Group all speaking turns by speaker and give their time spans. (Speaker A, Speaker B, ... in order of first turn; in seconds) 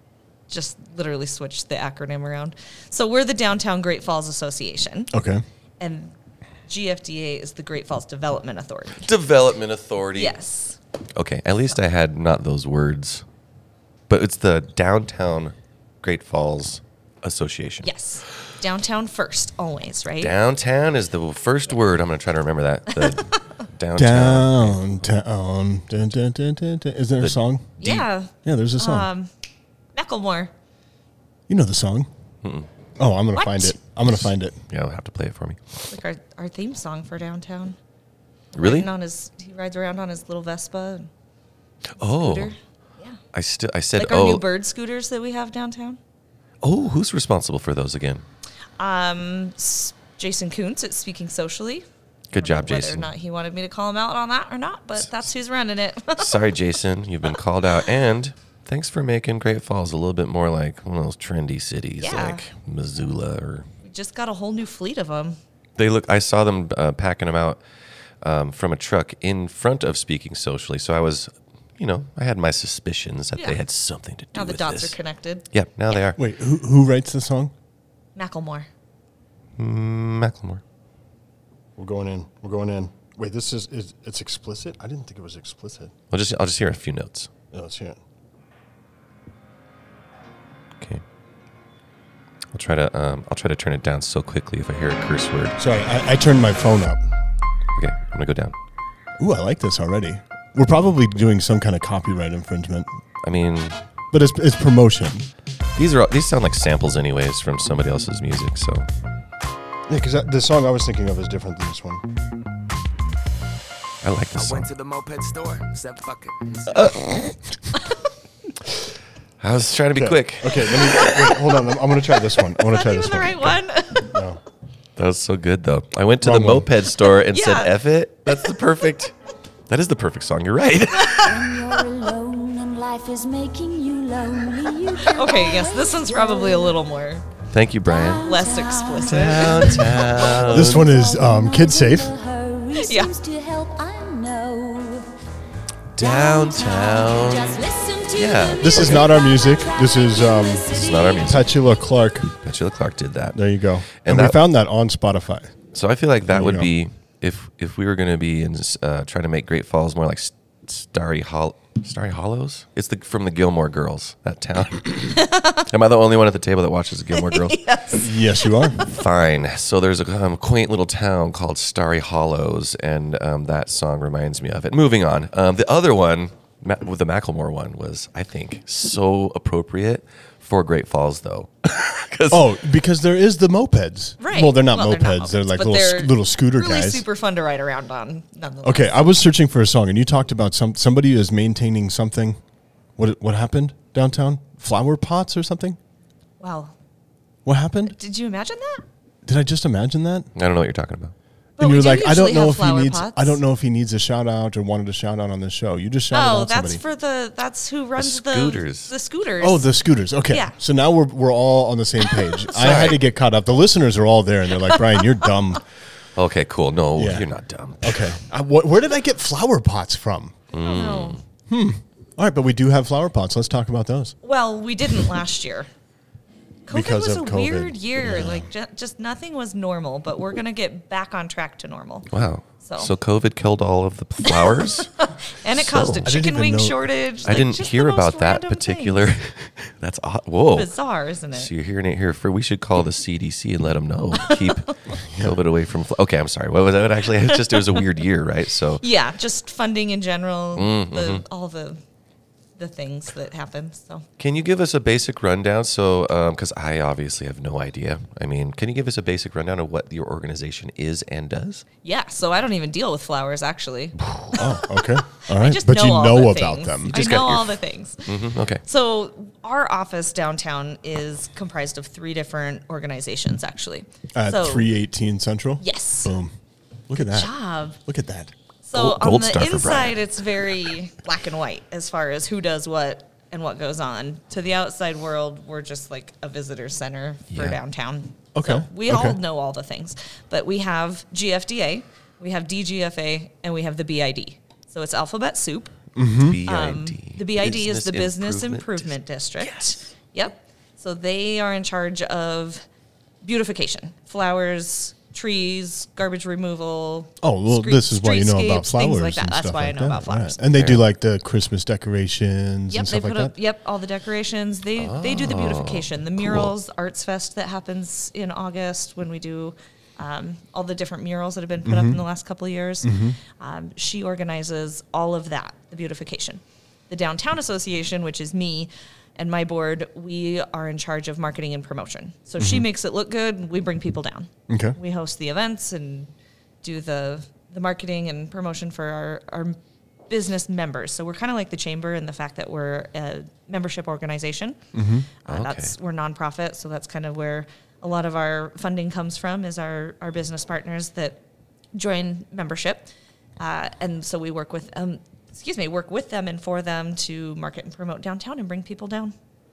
Speaker A: 0.5-5.1, 5.8-6.1, 6.7-9.1, 10.1-10.8, 17.8-20.3, 22.9-23.2, 27.8-29.3, 29.9-30.5, 33.3-33.8, 35.9-37.8, 38.5-41.1, 42.0-43.2, 44.0-46.0, 48.8-56.4, 62.0-62.5, 63.8-65.4, 74.3-75.5, 78.2-78.7, 122.5-124.2, 127.3-127.7, 131.0-131.3, 135.0-137.2, 138.2-140.0, 142.7-143.1, 165.2-165.6, 167.1-168.8, 184.2-189.1, 196.4-196.7, 197.9-198.8, 201.6-203.4, 206.1-209.7, 210.3-210.6, 212.1-212.9, 220.5-221.2, 224.2-225.7, 226.7-232.1, 232.6-232.9, 234.2-239.1, 240.5-241.5, 244.2-244.7, 247.3-247.8, 248.8-251.8, 252.6-254.0, 261.8-274.7, 275.6-276.1, 277.1-277.8, 278.6-295.7, 296.4-302.6, 303.2-310.5, 312.7-336.1, 336.6-339.6, 340.1-344.6, 345.2-351.2, 351.7-359.1
Speaker B: 5.1-5.4, 24.0-27.8, 28.4-29.1, 31.5-32.1, 33.0-34.6, 76.2-77.5, 81.8-85.9, 87.5-88.0, 95.6-97.0, 99.2-102.9, 104.1-105.3, 109.9-112.1, 119.9-124.4, 126.2-126.7, 140.4-142.1, 148.6-152.3, 153.3-155.5, 156.3-156.7, 167.9-168.8, 182.3-187.0, 188.6-192.4, 193.0-195.8, 197.4-197.9, 199.2-200.3, 201.6-206.8, 209.4-215.6, 216.9-217.2, 217.8-220.4, 221.5-224.1, 226.7-228.5, 236.0-236.9, 245.1-245.4, 264.3-266.9, 274.1-276.3, 276.9-278.3, 288.3-289.2, 295.9-296.4, 307.2-313.3, 321.6-322.0, 322.8-323.2, 332.4-332.6, 334.5-334.8, 344.7-345.1
Speaker C: 9.0-10.3, 11.2-13.2, 14.1-17.9, 20.2-24.8, 27.2-28.0, 34.1-35.8, 38.6-38.9, 42.0-42.5, 43.3-44.4, 46.6-48.2, 52.3-53.1, 56.2-63.7, 65.8-67.6, 68.2-75.0, 75.5-76.2, 79.6-80.6, 86.1-87.3, 92.5-95.5, 97.8-98.5, 103.2-103.8, 105.8-108.9, 114.0-114.7, 116.7-117.3, 119.4-121.5, 125.0-129.1, 129.7-131.5, 137.5-138.3, 139.0-140.9, 145.9-147.6, 148.1-149.1, 150.7-151.5, 152.4-153.4, 154.0-154.4, 155.7-167.6, 168.8-182.5, 200.3-201.1, 208.0-208.9, 212.5-213.0, 216.2-218.2, 220.5-221.2, 232.1-234.9, 235.5-236.2, 237.2-240.7, 241.3-248.8, 250.6-251.2, 254.2-261.6, 266.9-268.6, 278.7-280.1, 287.3-287.6, 296.2-299.7, 310.5-310.8, 314.8-316.5, 345.3-345.7
Speaker D: 114.3-116.9
Speaker E: 131.2-136.8, 137.8-145.1, 146.0-151.4